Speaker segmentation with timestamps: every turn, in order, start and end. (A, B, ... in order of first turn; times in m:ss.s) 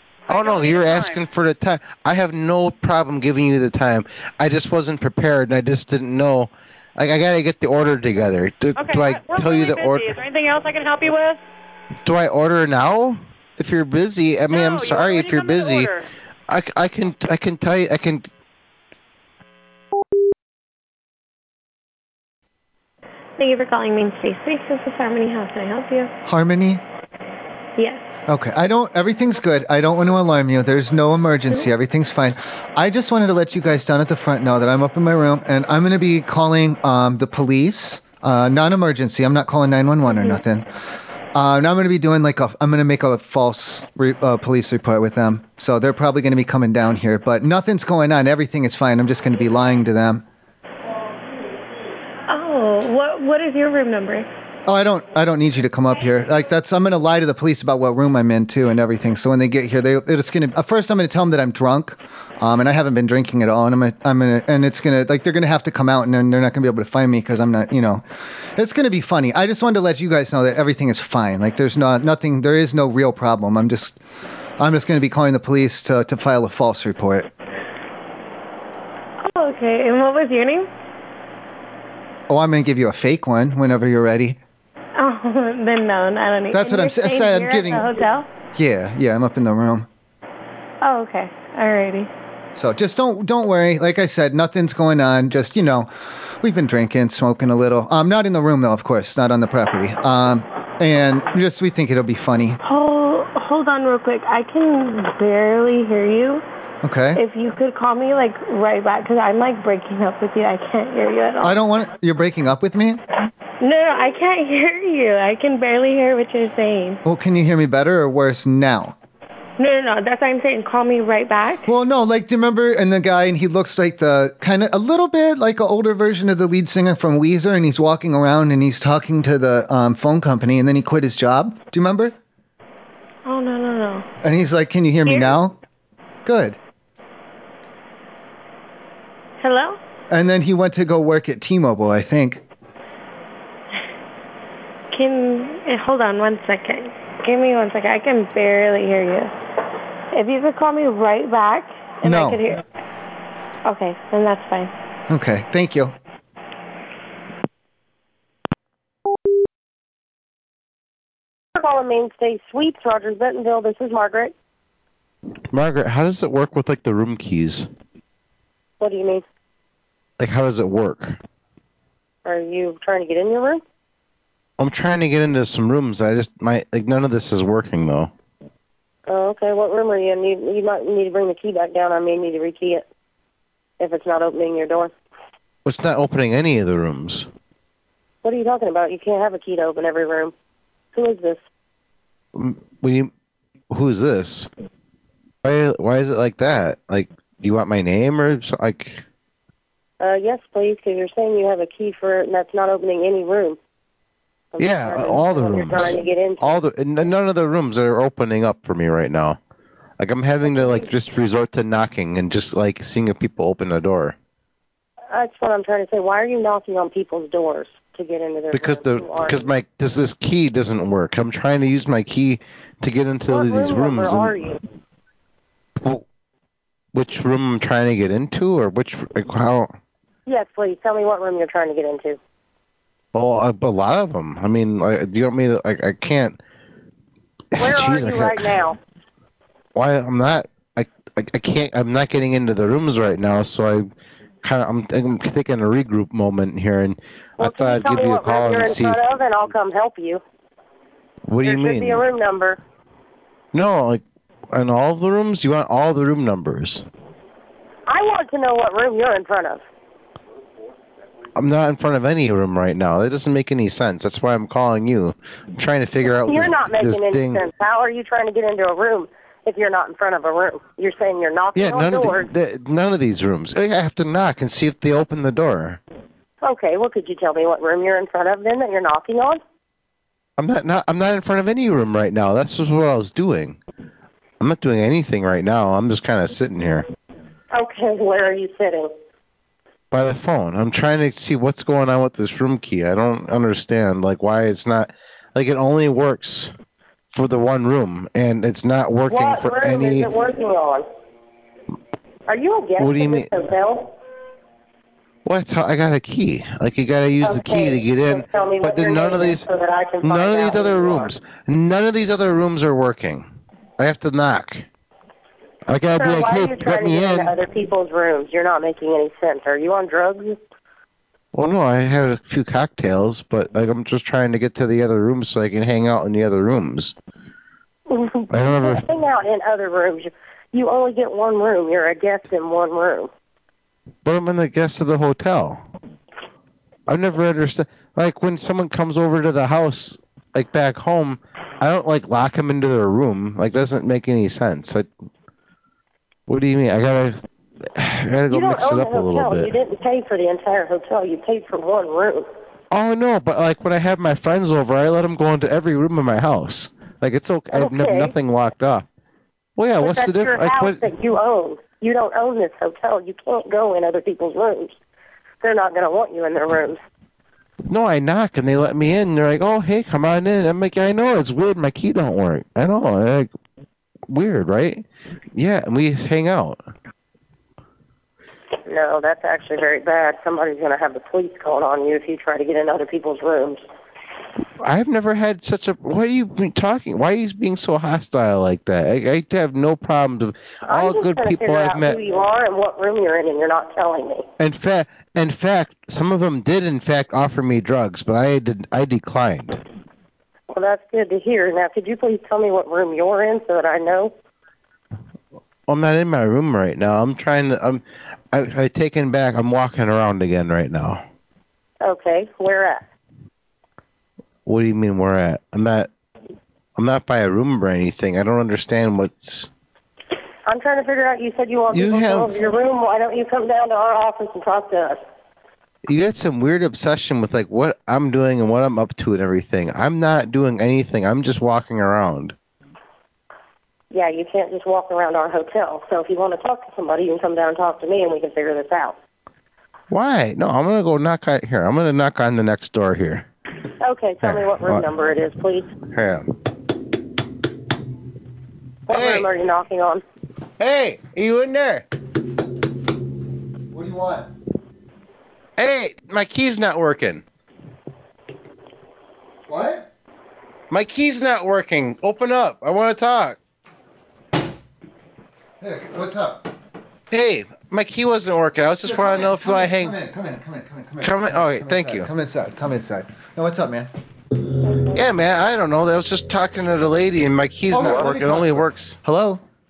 0:00.3-0:10.1 A
0:00.3-0:01.1 B
0:08.8-0:11.4 B
0:12.0-0:15.9 A
0:14.5-0:15.9 B
0:16.5-0:18.3 A
0:23.4-0:26.1 C
0:26.2-0:26.8 D
0:27.8-0:28.0 C
0:28.3-0:40.7 D
0:40.1-0:40.4 C
0:41.3-0:50.2 D
0:52.3-0:54.3 C
0:54.6-1:14.0 D
1:14.6-1:17.3 D
1:19.2-1:20.7 C
1:22.3-1:24.4 D
1:25.0-1:28.3 C
1:26.5-1:27.9 D
1:28.5-1:29.9 D
1:30.8-1:32.1 C
1:32.5-1:42.6 D
1:42.6-1:46.4 C
1:46.8-1:47.2 D
1:47.1-1:51.6 C
1:51.4-1:53.0 D
1:53.6-1:57.0 C
1:57.0-1:59.0 D
1:59.6-2:01.6 C
2:01.6-2:12.1 D
2:13.2-2:14.1 C
2:14.2-2:15.6 D
2:15.0-2:15.4 C
2:16.2-2:16.6 D
2:19.4-2:19.8 C
2:20.1-2:22.4 D
2:24.9-2:29.3 C
2:30.1-2:32.6 C
2:32.0-2:32.4 D
2:33.6-2:34.7 C
2:35.1-2:35.9 D
2:41.6-2:44.3 E
2:45.5-2:47.7 A
2:48.8-2:49.2 E
2:50.2-2:51.2 A
2:52.2-2:53.6 E
2:54.6-2:58.1 A
2:59.1-3:02.8 E
3:03.8-3:04.9 E
3:05.6-3:07.3 A
3:08.2-3:10.3 E
3:10.9-3:11.4 E
3:12.3-3:13.1 A
3:13.7-3:14.5 A
3:15.4-3:19.0 A
3:20.0-3:23.6 E
3:24.5-3:26.6 E
3:24.6-3:29.4 A
3:30.0-3:34.2 A
3:30.4-3:30.9 E
3:35.1-3:39.4 E
3:38.5-3:44.4 A
3:43.3-3:44.6 E
3:46.9-3:49.7 A
3:50.3-3:52.2 E
3:53.1-3:56.4 A
3:57.5-3:58.5 A
3:57.6-3:58.8 E
3:59.7-4:03.9 A
4:04.4-4:09.0 A
4:07.4-4:10.2 E
4:11.3-4:12.0 A
4:11.4-4:12.6 E
4:13.5-4:16.8 A
4:17.9-4:19.6 E
4:21.4-4:27.4 A
4:26.1-4:32.3 E
4:31.5-4:35.8 A
4:36.4-4:39.4 E
4:40.4-4:43.6 A
4:44.4-4:46.9 A
4:47.5-4:48.9 E
4:49.9-4:56.5 A
4:57.1-5:00.1 A
4:59.1-5:00.8 E
5:02.3-5:03.9 E
5:02.8-5:03.3 A
5:05.2-5:09.4 A
5:07.2-5:11.1 E
5:10.0-5:14.6 A
5:15.7-5:17.4 A
5:15.9-5:20.4 E
5:21.3-5:26.9 A
5:27.9-5:33.1 E
5:28.3-5:28.8 A
5:34.0-5:35.6 A
5:36.9-5:44.9 A
5:46.3-5:47.2 A
5:47.7-5:49.5 A
5:48.3-5:52.3 E
5:52.7-5:58.8 A
5:57.5-5:58.1 E
5:59.6-6:00.8 A
5:59.8-6:04.7 E
6:05.4-6:06.8 E
6:07.7-6:13.3 A
6:14.1-6:16.6 A
6:18.7-6:23.6 E
6:24.6-6:32.0 A
6:30.7-6:34.2 E
6:34.4-6:39.6 A
6:40.5-6:44.1 E
6:45.7-6:51.0 A
6:51.8-6:52.8 E
6:54.4-6:55.9 A
6:56.8-6:59.5 A
7:00.5-7:05.0 E
7:01.7-7:02.4 A
7:05.8-7:12.3 A
7:13.9-7:19.0 E
7:19.9-7:23.3 A
7:23.8-7:25.7 E
7:24.2-7:24.8 A
7:25.9-7:26.3 A
7:28.9-7:30.0 E
7:28.9-7:29.3 A
7:30.6-7:31.8 A
7:33.7-7:34.3 D
7:35.6-7:37.2 A
7:39.5-7:39.9 D
7:40.7-7:43.4 A
7:45.6-7:46.5 D
7:47.1-7:50.0 A
7:48.8-7:53.9 D
7:51.0-7:52.1 A
7:54.9-7:59.0 A
7:57.7-7:59.4 D